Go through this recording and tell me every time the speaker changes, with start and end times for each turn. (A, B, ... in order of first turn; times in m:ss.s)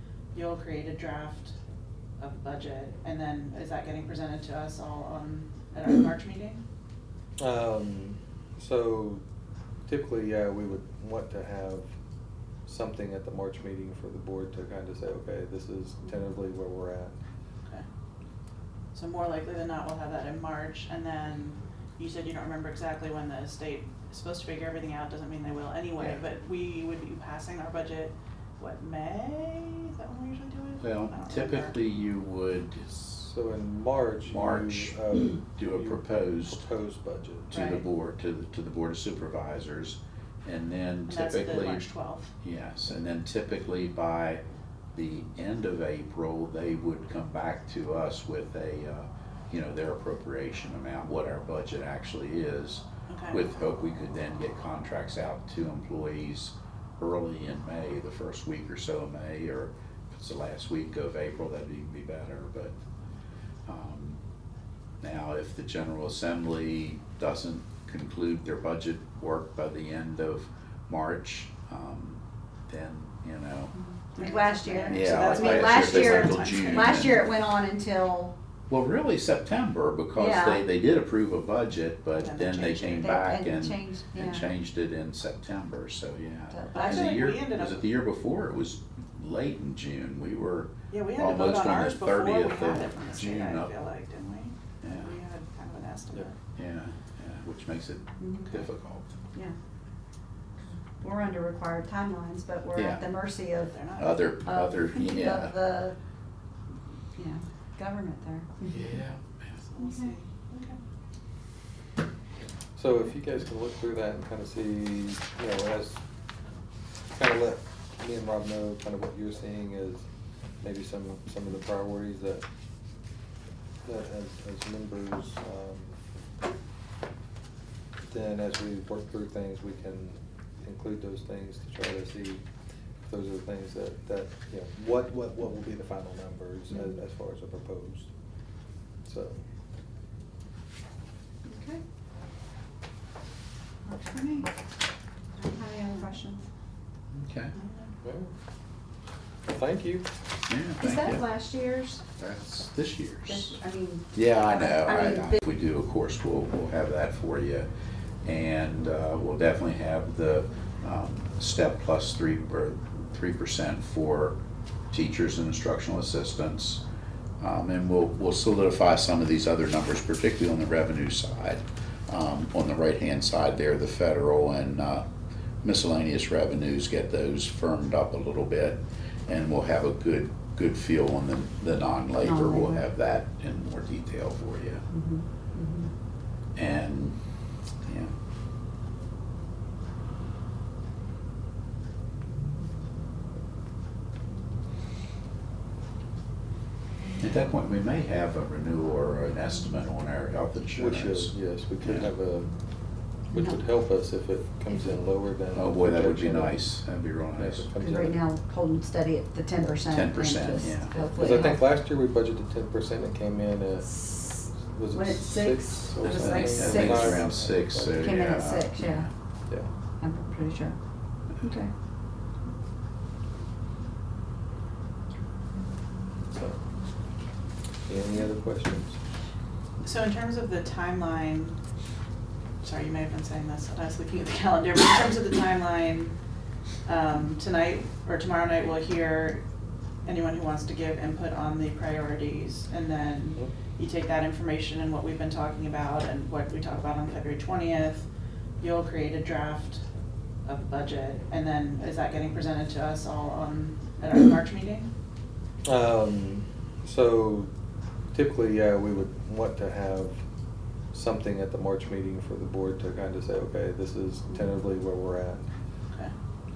0:00.3-0:01.6 A
0:02.2-0:06.6 A
0:07.4-0:09.2 B
0:09.9-0:11.9 B
0:12.6-0:17.2 B
0:18.9-0:31.8 A
0:30.8-0:33.3 C
0:33.3-0:37.5 B
0:34.3-0:36.6 C
0:37.5-0:37.8 A
0:37.5-0:41.9 C
0:41.1-0:42.3 A
0:42.4-0:44.4 C
0:44.9-1:02.7 C
0:53.1-0:53.4 A
1:03.7-1:04.2 C
1:05.0-1:13.7 C
1:13.7-1:18.3 D
1:14.2-1:17.2 A
1:14.9-1:17.3 C
1:18.7-1:33.7 C
1:20.1-1:20.6 D
1:22.2-1:23.2 A
1:23.0-1:24.5 D
1:26.5-1:27.1 D
1:26.7-1:27.8 A
1:30.9-1:36.3 A
1:34.8-1:35.1 C
1:36.6-1:39.2 C
1:38.2-1:38.6 D
1:41.0-1:43.8 D
1:42.7-1:43.0 C
1:43.6-1:44.1 A
1:44.0-1:45.6 C
1:44.4-1:46.0 D
1:47.2-1:49.0 D
1:48.7-1:49.6 C
1:49.6-1:50.8 A
1:49.8-1:50.1 D
1:52.8-1:56.0 B
1:57.1-2:00.0 B
2:00.6-2:02.4 B
2:03.8-2:06.0 B
2:08.1-2:12.4 B
2:13.1-2:18.1 B
2:19.0-2:19.4 B
2:21.5-2:21.8 D
2:23.9-2:24.5 D
2:25.4-2:26.4 D
2:27.1-2:27.5 C
2:27.6-2:27.9 A
2:28.0-2:28.3 B
2:29.5-2:30.1 B
2:30.5-2:31.2 C
2:30.8-2:32.0 D
2:32.2-2:33.6 C
2:33.3-2:35.4 D
2:34.1-2:37.7 C
2:38.2-2:44.4 C
2:44.9-2:46.8 C
2:47.4-2:55.0 C
2:55.6-3:04.8 C
3:02.2-3:02.8 D
3:04.9-3:05.9 D
3:06.6-3:07.2 C
3:07.8-3:08.1 C
3:17.2-3:22.1 C
3:20.8-3:22.6 B
3:23.3-3:26.6 B
3:23.3-3:23.6 D
3:25.5-3:27.7 C
3:27.4-3:28.2 B
3:27.8-3:31.6 D
3:29.8-3:31.0 C
3:31.1-3:38.0 B
3:34.9-3:37.2 D
3:36.0-3:39.1 C
3:37.9-3:39.1 D
3:40.0-3:40.8 D
3:41.4-3:41.7 D
3:46.3-3:46.6 B
3:47.9-3:49.0 B
3:49.8-3:51.6 A
3:52.6-3:56.2 A
3:56.8-3:59.4 A
4:00.0-4:08.1 A
4:08.6-4:09.8 A
4:10.4-4:14.9 A
4:15.6-4:17.5 B
4:18.1-4:20.2 B
4:20.9-4:25.5 B